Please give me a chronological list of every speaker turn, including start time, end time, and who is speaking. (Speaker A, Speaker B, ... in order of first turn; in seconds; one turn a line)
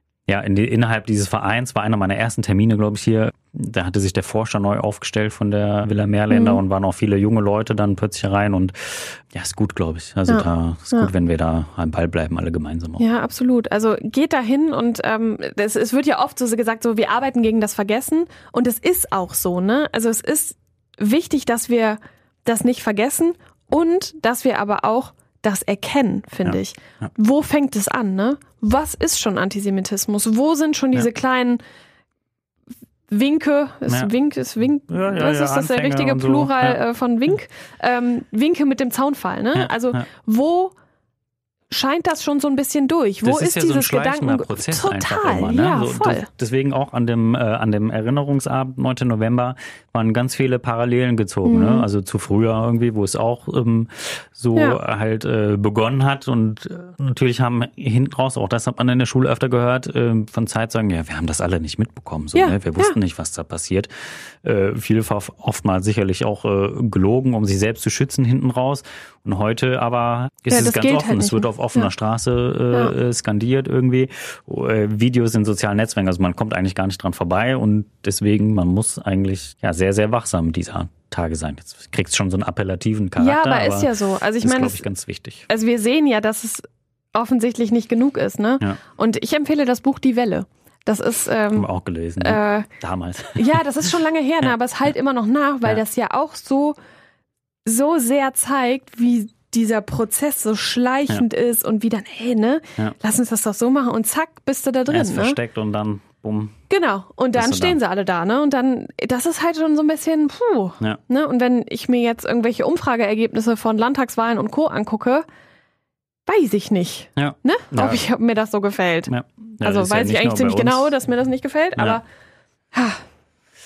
Speaker A: 0.3-13.0
Speaker B: 6.3-6.6
Speaker B: 10.3-11.1
Speaker B: 13.0-31.6
Speaker A: 26.4-27.1
Speaker B: 33.1-40.7
Speaker A: 33.9-34.1
Speaker A: 34.9-36.8
Speaker A: 39.5-40.0
Speaker B: 41.7-46.3
Speaker A: 43.2-83.9
Speaker B: 51.4-51.9
Speaker B: 62.4-63.0
Speaker B: 70.5-71.9
Speaker B: 83.2-84.8
Speaker A: 84.4-85.5
Speaker B: 85.5-91.7
Speaker A: 91.5-93.6
Speaker B: 92.2-92.7
Speaker B: 93.4-96.8
Speaker B: 97.7-105.4
Speaker A: 104.9-106.5
Speaker B: 106.7-115.2
Speaker A: 107.3-107.8
Speaker B: 116.2-122.0
Speaker A: 117.2-118.0
Speaker A: 119.1-120.9
Speaker B: 122.7-123.0